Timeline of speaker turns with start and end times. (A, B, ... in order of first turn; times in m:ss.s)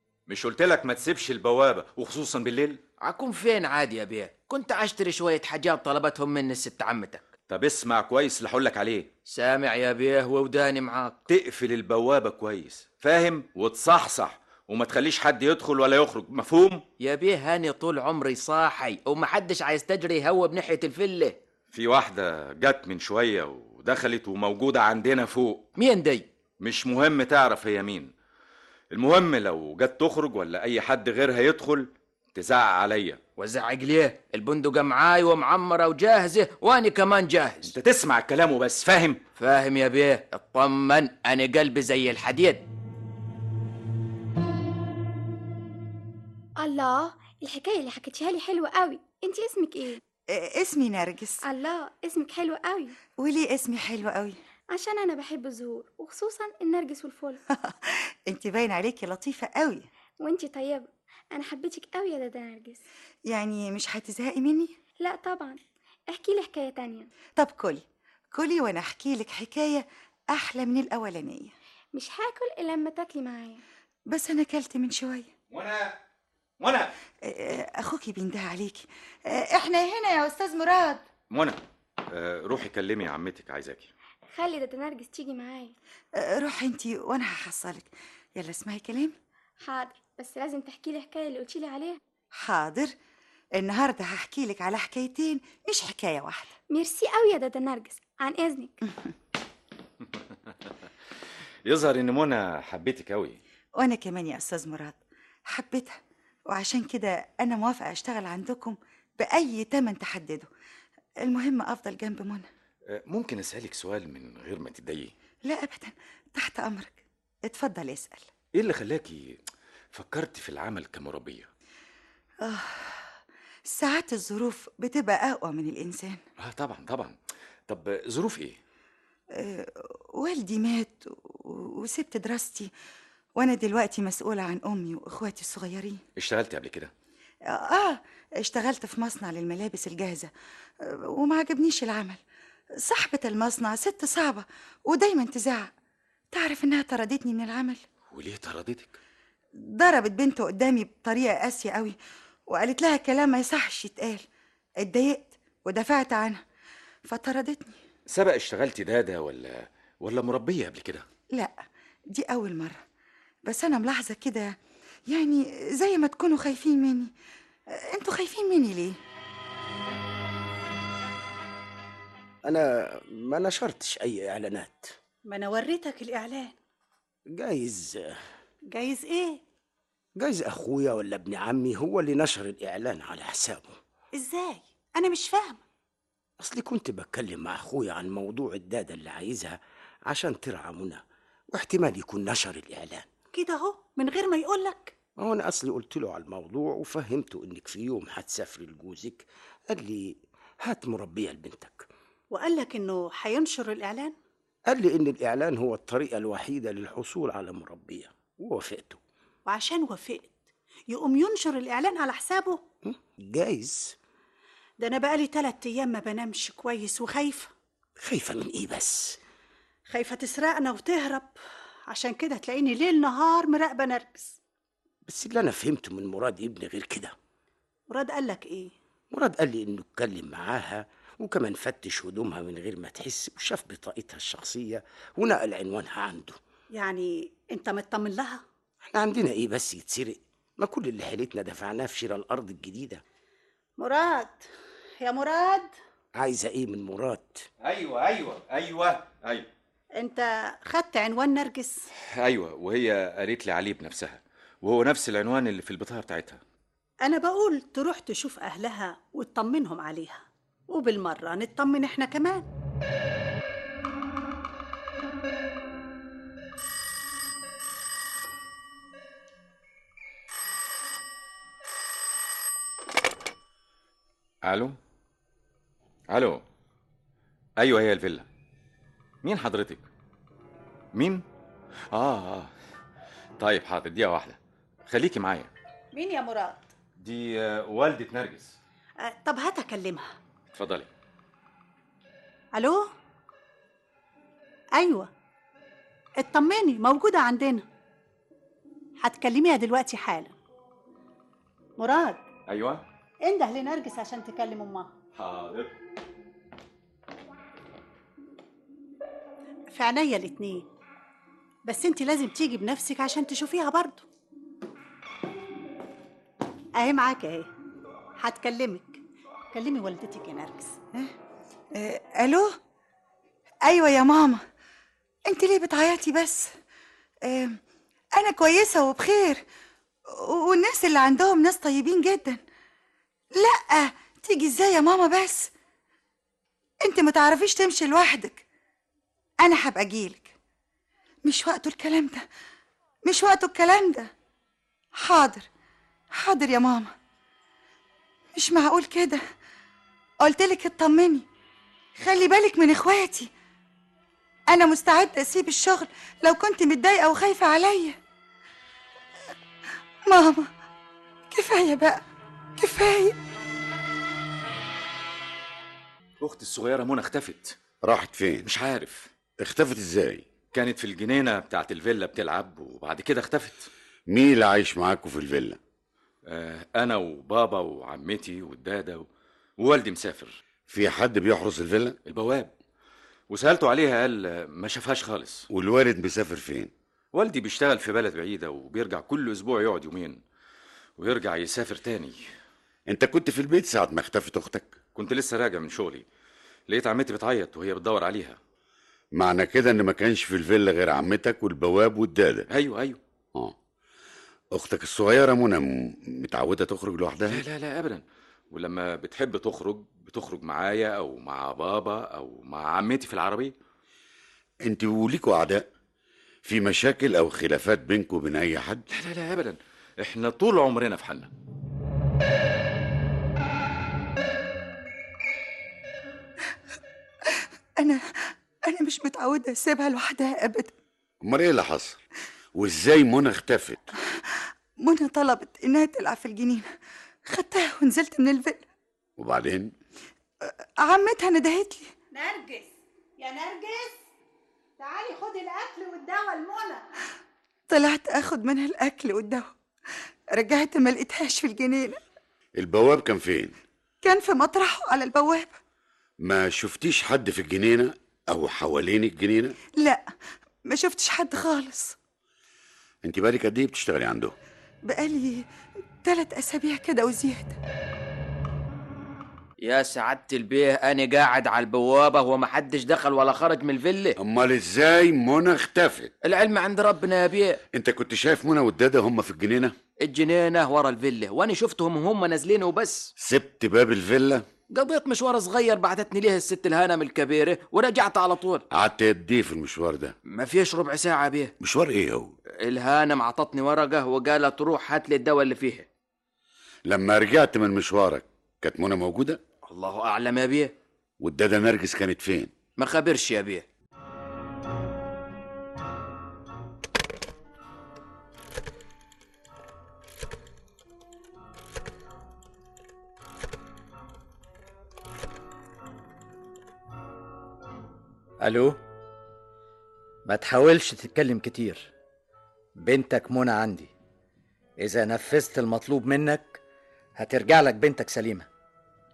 0:00.3-0:02.8 A
0:03.0-0:07.3 B
0:07.5-0:09.1 A
0:09.3-0:11.2 B
0:11.3-0:16.8 A
0:17.0-0:21.4 B
0:21.7-0:25.7 A
0:25.8-0:26.2 B
0:26.6-0:28.1 A
0:28.9-0:33.2 A
0:33.4-0:37.7 B
0:37.7-0:39.2 A
0:39.4-0:42.6 B
0:46.6-0:50.0 C
0:50.3-0:51.4 D
0:51.4-0:53.0 C
0:53.2-0:54.4 D
0:54.7-0:57.4 C
0:57.5-0:59.9 D
1:00.2-1:02.8 C
1:03.3-1:04.8 D
1:05.0-1:07.1 C
1:07.4-1:11.5 D
1:11.9-1:13.6 C
1:14.1-1:15.3 D
1:15.5-1:16.0 A
1:16.6-1:16.9 A
1:17.2-1:21.0 D
1:21.3-1:23.9 A
1:24.3-1:25.7 C
1:26.2-1:29.1 D
1:29.6-1:32.0 C
1:32.3-1:32.9 D
1:33.6-1:36.5 D
1:36.7-1:38.8 C
1:41.6-1:43.4 A
1:43.8-1:50.5 D
1:51.2-1:52.5 D
1:52.9-1:55.1 A
1:55.4-1:58.2 D
1:58.5-1:59.4 A
1:59.9-2:01.5 A
2:02.4-2:03.1 D
2:03.6-2:06.2 D
2:06.4-2:07.2 A
2:07.7-2:08.6 A
2:09.3-2:12.7 D
2:13.4-2:16.0 D
2:16.2-2:16.9 A
2:17.4-2:22.2 D
2:22.8-2:25.7 D
2:26.3-2:27.8 D
2:28.1-2:29.0 A
2:29.6-2:32.0 D
2:32.5-2:34.2 D
2:34.8-2:36.4 D
2:37.1-2:37.7 D
2:38.1-2:41.0 A
2:41.3-2:41.6 D
2:42.1-2:42.8 D
2:43.4-2:44.6 D
2:45.1-2:47.1 D
2:47.7-2:49.0 D
2:52.4-2:54.9 E
2:55.3-2:56.5 F
2:57.3-2:58.2 E
2:58.7-2:59.4 F
3:00.2-3:03.8 E
3:04.1-3:05.6 F
3:06.4-3:13.1 E
3:13.3-3:14.9 F
3:15.2-3:21.9 E
3:22.3-3:24.2 F
3:24.7-3:29.0 E
3:29.4-3:30.4 F
3:30.9-3:32.6 F
3:32.8-3:34.0 E
3:34.8-3:37.5 F
3:38.0-3:39.2 E
3:39.9-3:41.3 F
3:41.9-3:44.4 F
3:45.0-3:47.1 E
3:47.9-3:48.7 F
3:49.1-3:56.4 E
3:56.7-3:58.4 F
3:58.8-4:03.0 E
4:03.8-4:04.5 F
4:05.0-4:05.7 F
4:06.1-4:07.4 E
4:07.6-4:09.5 A
4:10.0-4:11.8 F
4:12.1-4:16.4 A
4:17.0-4:22.4 F
4:34.4-4:34.8 A
4:36.1-4:36.4 A
4:37.6-4:38.2 A
4:39.2-4:39.8 A
4:40.9-4:41.2 A
4:41.9-4:42.5 A
4:43.4-4:45.5 A
4:45.9-4:46.7 F
4:47.0-4:48.6 A
4:49.0-4:50.1 F
4:50.5-4:50.9 A
4:52.5-4:52.9 F
4:54.8-4:55.1 F
4:56.2-4:57.6 F
4:59.0-5:00.3 F
5:01.8-5:02.2 F
5:02.5-5:02.8 A
5:03.2-5:04.9 F
5:05.1-5:05.7 A
5:09.7-5:10.6 F
5:11.6-5:14.0 F
5:16.8-5:17.5 F
5:18.2-5:19.0 F
5:19.5-5:20.8 F
5:21.7-5:22.6 D
5:23.6-5:24.4 D
5:25.2-5:26.5 D
5:27.2-5:27.6 D
5:28.2-5:29.4 D
5:30.1-5:32.4 D
5:33.3-5:35.5 D
5:36.8-5:38.4 D
5:39.4-5:40.3 D
5:41.2-5:42.2 D
5:43.0-5:44.1 D
5:44.9-5:45.4 D
5:46.1-5:46.9 D
5:48.3-5:49.2 D
5:50.2-5:51.2 D
5:52.0-5:53.3 D
5:54.5-5:58.0 D
6:00.0-6:00.5 D
6:01.3-6:02.0 D
6:02.6-6:03.2 D
6:06.2-6:07.6 A
6:07.8-6:08.5 G
6:08.4-6:09.1 A
6:09.4-6:10.2 G
6:10.5-6:13.7 A
6:14.1-6:15.6 G
6:16.2-6:19.0 A
6:19.6-6:20.4 A
6:20.7-6:22.0 G
6:22.0-6:22.5 A
6:23.3-6:25.5 A
6:25.5-6:26.7 G
6:27.1-6:30.2 A
6:31.0-6:32.3 A
6:32.8-6:34.8 G
6:34.9-6:36.0 A
6:36.7-6:38.4 A
6:39.1-6:42.5 G
6:42.5-6:43.0 A
6:44.5-6:47.4 G
6:47.3-6:53.5 A
6:54.6-6:55.7 G
6:56.4-6:58.8 G
6:58.9-7:01.3 A
7:07.2-7:10.7 D
7:11.2-7:12.0 G
7:12.5-7:13.9 G
7:14.1-7:16.7 D
7:17.2-7:18.6 D
7:19.2-7:19.7 G
7:20.4-7:21.9 D
7:22.1-7:24.0 F
7:24.8-7:26.8 F
7:27.7-7:29.5 D
7:30.3-7:32.0 D
7:32.5-7:33.6 G
7:34.0-7:35.6 D
7:36.2-7:39.6 G
7:39.8-7:40.0 D
7:40.6-7:42.0 D
7:43.0-7:44.3 G
7:44.8-7:45.4 D
7:46.0-7:47.6 D
7:49.6-7:54.2 B
7:54.2-7:56.1 G
7:56.2-7:57.6 B
7:57.7-7:59.7 G
8:00.0-8:03.1 B
8:03.2-8:04.4 G
8:04.7-8:08.6 B
8:08.7-8:10.2 G
8:10.3-8:11.5 B
8:11.6-8:12.3 G
8:12.6-8:15.9 B
8:16.9-8:19.4 G
8:19.6-8:20.7 B
8:21.2-8:22.5 G
8:22.8-8:23.6 B
8:38.4-8:38.8 H
8:40.2-8:41.9 H
8:42.8-8:43.9 H
8:44.8-8:46.6 H
8:47.2-8:48.5 H